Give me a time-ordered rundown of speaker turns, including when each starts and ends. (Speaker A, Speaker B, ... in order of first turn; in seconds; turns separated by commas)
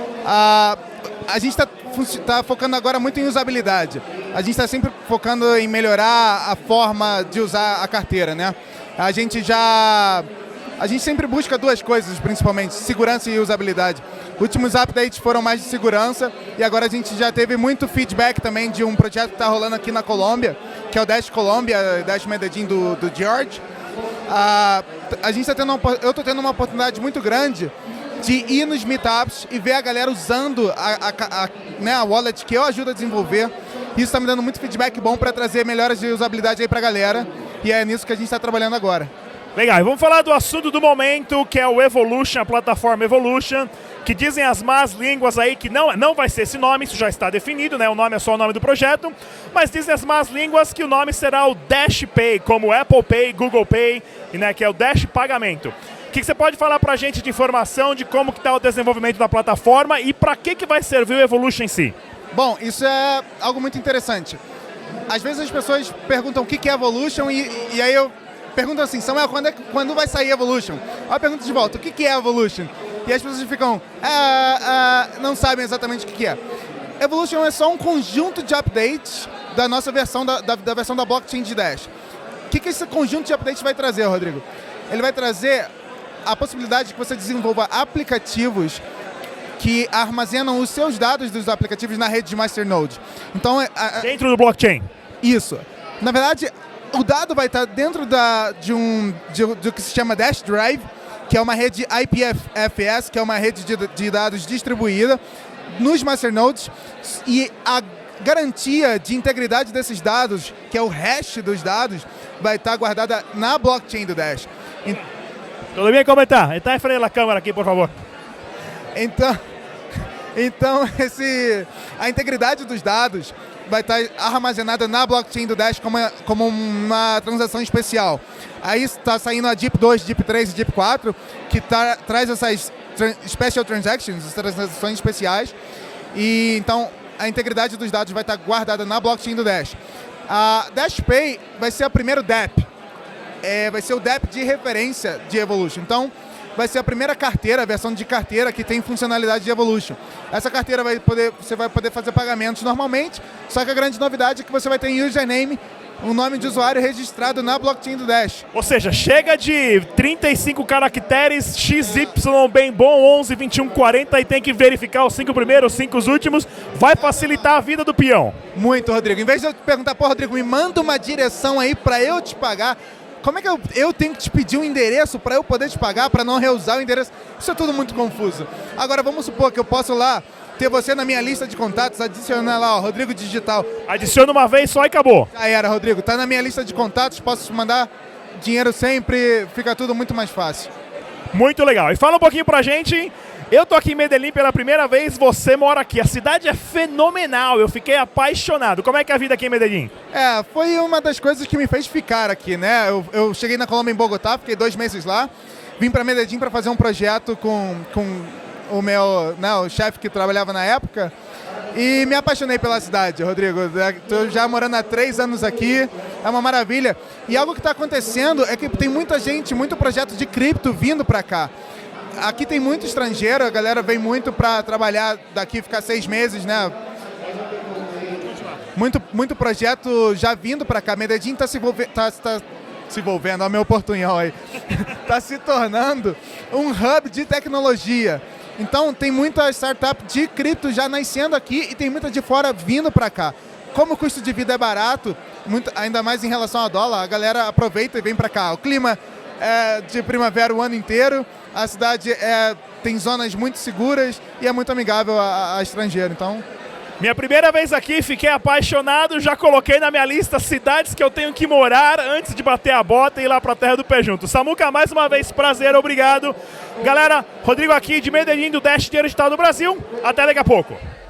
Speaker A: 0.2-10.3, Speaker A: 10.8-23.6, Speaker A: 24.3-39.1, Speaker B: 39.5-62.0, Speaker A: 62.3-64.4, Speaker A: 65.1-76.4, Speaker A: 77.0-81.9, Speaker A: 82.5-85.7, Speaker A: 86.2-88.8, Speaker A: 89.6-94.1, Speaker B: 94.0-94.9, Speaker A: 95.2-105.2, Speaker A: 105.8-115.0, Speaker B: 115.8-117.9, Speaker A: 119.0-119.4, Speaker A: 120.3-135.5, Speaker A: 136.1-142.7, Speaker A: 143.4-158.4, Speaker B: 158.5-168.4, Speaker A: 168.6-183.7, Speaker B: 183.9-185.3, Speaker A: 185.3-190.7, Speaker B: 191.3-199.9, Speaker A: 200.1-211.1, Speaker A: 211.7-221.5, Speaker A: 222.2-226.8, Speaker A: 228.8-256.4, Speaker B: 257.0-270.8